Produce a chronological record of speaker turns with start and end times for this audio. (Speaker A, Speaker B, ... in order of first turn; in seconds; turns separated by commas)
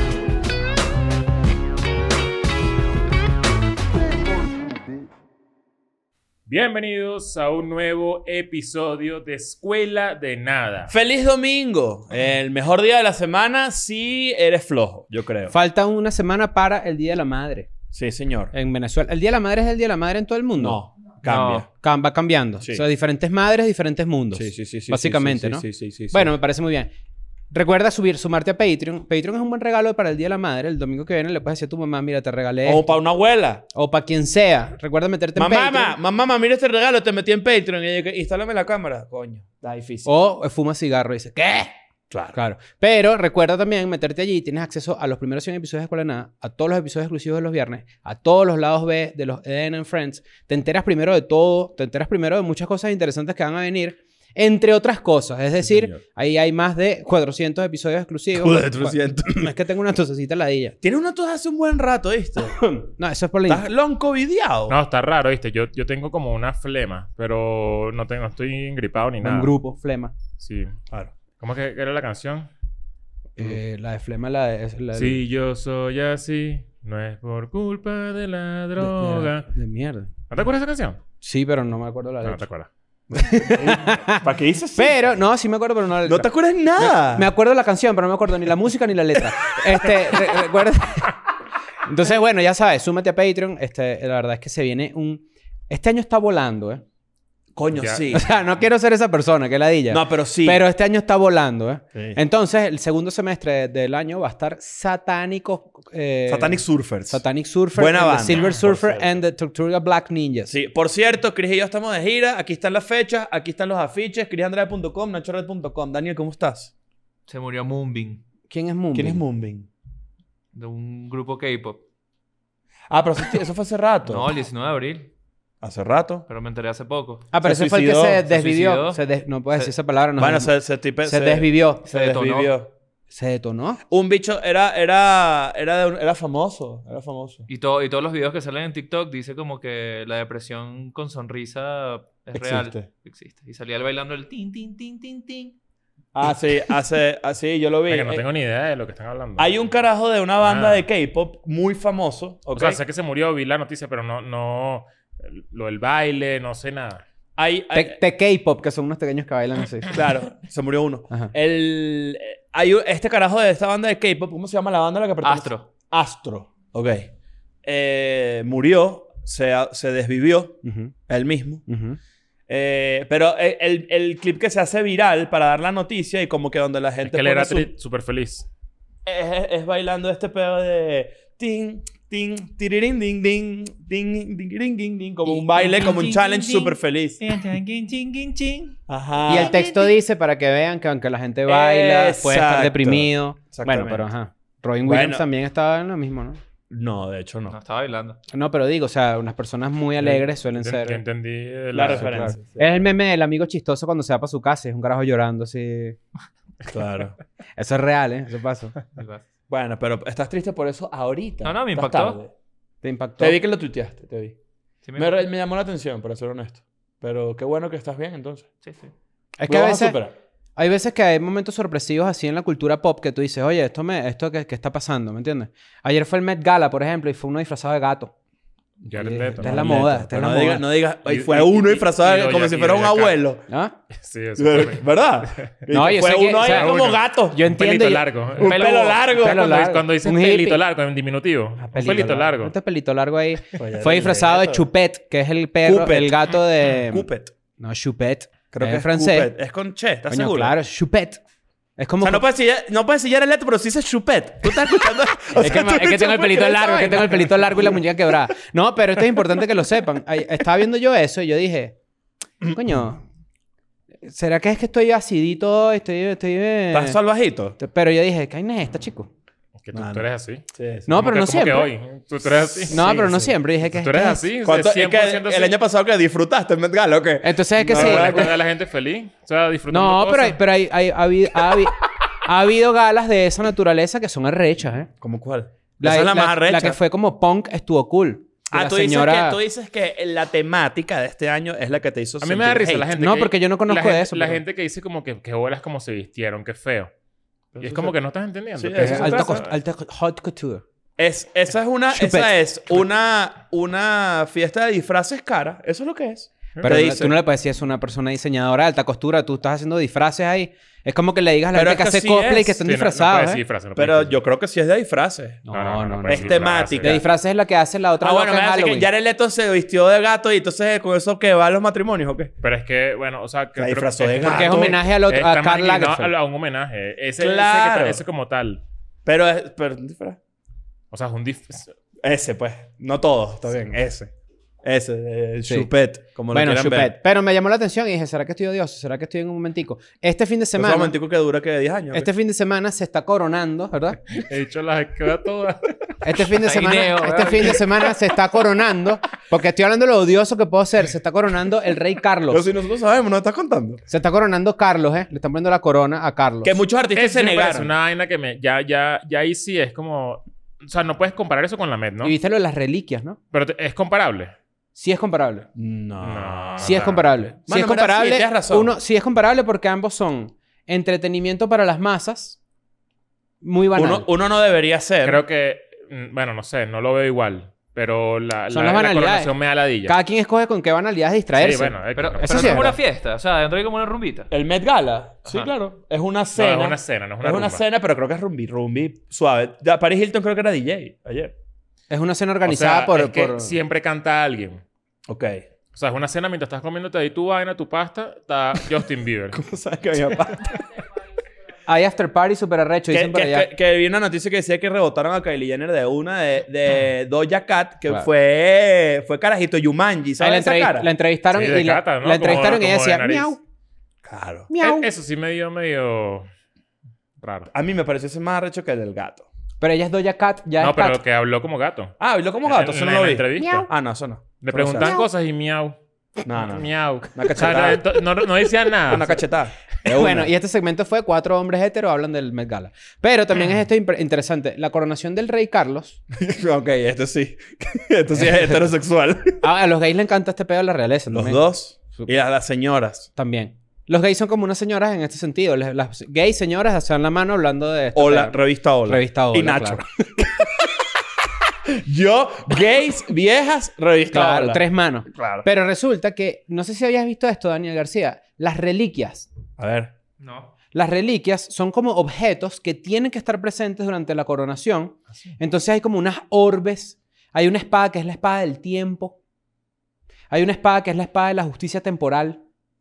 Speaker A: 6.5-10.9, Speaker B: 10.9-15.5, Speaker C: 15.5-17.7, Speaker B: 17.9-18.5, Speaker C: 18.5-20.8, Speaker B: 20.6-21.7, Speaker D: 21.2-21.6, Speaker C: 21.8-26.9, Speaker B: 24.3-26.3, Speaker C: 27.5-33.0, Speaker B: 32.6-33.6, Speaker C: 33.7-36.0, Speaker B: 35.4-40.1, Speaker C: 40.0-41.7, Speaker B: 42.1-42.4, Speaker C: 42.3-60.8, Speaker B: 55.6-56.0, Speaker B: 58.3-59.4, Speaker B: 60.8-62.6, Speaker C: 62.5-63.7, Speaker B: 63.5-64.8, Speaker A: 64.7-69.5, Speaker C: 69.2-70.1, Speaker A: 70.4-70.7, Speaker A: 71.4-72.5, Speaker C: 73.4-75.2, Speaker A: 74.9-79.5, Speaker C: 78.8-80.1, Speaker A: 80.3-81.0, Speaker C: 81.2-82.5, Speaker A: 82.2-82.7, Speaker B: 83.1-85.0, Speaker C: 83.1-84.2, Speaker C: 84.7-91.2, Speaker B: 86.0-87.3, Speaker C: 91.8-96.8, Speaker B: 97.5-98.3, Speaker A: 97.7-98.4, Speaker C: 98.1-110.5, Speaker B: 99.9-100.6, Speaker B: 101.9-102.2, Speaker B: 106.3-107.2, Speaker B: 107.7-109.2, Speaker B: 110.5-116.7, Speaker D: 117.3-118.2, Speaker C: 118.5-119.2, Speaker B: 118.9-119.7, Speaker D: 120.5-121.8, Speaker B: 122.9-124.3, Speaker D: 124.0-125.1, Speaker B: 125.6-126.2, Speaker D: 126.3-127.3, Speaker C: 127.3-130.5, Speaker B: 127.4-128.2, Speaker D: 128.2-129.0, Speaker B: 130.2-132.7, Speaker C: 131.0-132.5, Speaker C: 133.1-133.8, Speaker B: 133.9-137.5, Speaker D: 137.5-145.5, Speaker B: 142.3-142.8, Speaker B: 146.1-148.2, Speaker A: 147.9-149.5, Speaker B: 149.4-152.8, Speaker A: 150.4-150.8, Speaker A: 152.5-157.0, Speaker B: 157.4-158.0, Speaker C: 157.7-159.9, Speaker B: 159.9-167.1, Speaker D: 165.2-165.7, Speaker B: 167.6-171.6, Speaker C: 170.6-170.9, Speaker C: 171.7-172.0, Speaker B: 172.5-177.7, Speaker A: 177.0-178.5, Speaker B: 179.0-187.2, Speaker D: 185.2-188.8, Speaker B: 188.9-189.6, Speaker C: 189.2-196.4, Speaker D: 189.4-189.9, Speaker B: 191.4-194.1, Speaker B: 194.8-195.2, Speaker B: 196.7-197.6, Speaker D: 197.5-198.2, Speaker C: 198.3-201.0, Speaker A: 200.5-202.3, Speaker B: 201.7-202.8, Speaker C: 201.8-206.0, Speaker B: 206.6-207.2, Speaker C: 207.6-208.8, Speaker D: 208.9-209.2, Speaker B: 209.5-212.3, Speaker D: 211.4-212.2, Speaker C: 212.8-213.4, Speaker B: 213.2-214.3, Speaker D: 214.8-215.2, Speaker B: 214.9-218.5, Speaker D: 218.6-218.9, Speaker C: 219.4-220.0, Speaker B: 219.5-220.1, Speaker C: 220.6-228.1, Speaker A: 228.8-229.8, Speaker B: 229.0-233.4, Speaker C: 229.0-230.6, Speaker A: 231.0-233.2, Speaker C: 233.5-233.7, Speaker A: 233.9-235.5, Speaker B: 234.4-237.4, Speaker C: 235.7-236.8, Speaker A: 236.4-242.5, Speaker C: 237.3-240.6, Speaker B: 238.4-239.5, Speaker D: 238.7-238.9, Speaker C: 241.7-249.3, Speaker B: 241.8-242.2, Speaker B: 243.6-244.6, Speaker B: 245.6-247.3, Speaker B: 248.5-250.5, Speaker C: 250.1-251.2, Speaker C: 251.8-252.2, Speaker B: 252.0-257.9, Speaker C: 254.5-261.7, Speaker C: 262.4-263.0, Speaker C: 264.0-267.0, Speaker B: 266.7-267.6, Speaker C: 267.6-269.1, Speaker A: 269.6-275.6, Speaker B: 269.7-270.9, Speaker C: 270.9-271.7, Speaker B: 272.5-273.3, Speaker C: 272.7-274.2, Speaker B: 274.4-278.4, Speaker C: 277.2-278.3, Speaker A: 277.7-280.4, Speaker C: 279.7-284.9, Speaker B: 285.0-286.8, Speaker C: 285.8-289.4, Speaker B: 288.5-292.9, Speaker A: 292.2-296.9, Speaker C: 292.9-294.4, Speaker B: 297.5-297.9, Speaker A: 297.6-299.5, Speaker B: 298.6-299.5, Speaker C: 298.8-300.6, Speaker B: 301.0-307.1, Speaker C: 301.9-302.3, Speaker C: 306.6-313.4, Speaker B: 311.5-312.6, Speaker A: 312.6-314.2, Speaker B: 313.8-315.4, Speaker C: 315.4-318.9, Speaker A: 315.5-317.0, Speaker B: 316.1-317.0, Speaker B: 318.0-322.3, Speaker A: 322.4-328.6, Speaker B: 323.6-324.8, Speaker C: 324.2-326.1, Speaker B: 327.2-328.0, Speaker B: 329.0-330.2, Speaker A: 330.9-331.7, Speaker B: 332.0-334.1, Speaker B: 334.6-336.9, Speaker C: 336.3-340.9, Speaker B: 340.6-342.1, Speaker C: 341.9-344.0, Speaker A: 344.1-346.0, Speaker C: 346.0-352.4, Speaker D: 346.2-347.8, Speaker B: 352.3-353.8, Speaker C: 353.9-356.6, Speaker B: 356.4-357.7, Speaker A: 356.9-362.1, Speaker C: 362.0-363.2, Speaker A: 363.3-364.3, Speaker C: 364.7-365.5, Speaker B: 365.6-368.7, Speaker A: 366.0-367.0, Speaker C: 366.6-372.4, Speaker C: 373.4-374.1, Speaker B: 373.7-375.2, Speaker A: 375.0-380.0, Speaker C: 378.5-379.3, Speaker C: 379.9-382.8, Speaker A: 381.4-382.8, Speaker D: 381.9-384.3, Speaker B: 384.3-391.3, Speaker D: 385.2-385.5, Speaker A: 386.4-387.6, Speaker C: 391.9-393.5, Speaker A: 392.4-394.6, Speaker B: 395.1-395.4, Speaker A: 395.7-399.4, Speaker B: 399.3-400.6, Speaker C: 401.7-403.5, Speaker B: 402.9-410.9, Speaker C: 410.2-413.4, Speaker A: 411.3-413.3, Speaker B: 414.0-414.5, Speaker C: 414.5-414.9, Speaker A: 414.6-416.3, Speaker A: 417.2-417.5, Speaker B: 417.5-419.3, Speaker C: 419.6-421.0, Speaker A: 420.6-423.7, Speaker B: 422.0-424.9, Speaker C: 423.4-423.7, Speaker A: 424.4-425.8, Speaker C: 424.8-425.1, Speaker B: 426.2-428.3, Speaker A: 426.3-429.2, Speaker B: 428.8-430.3, Speaker C: 429.8-436.0, Speaker B: 436.1-439.4, Speaker C: 438.2-438.4, Speaker C: 439.4-442.1, Speaker B: 441.1-443.1, Speaker C: 443.1-449.8, Speaker B: 447.9-450.7, Speaker B: 451.7-454.6, Speaker C: 454.1-459.3, Speaker B: 455.1-455.5, Speaker B: 459.6-459.9, Speaker D: 460.2-460.5, Speaker C: 460.7-469.2, Speaker C: 470.3-472.4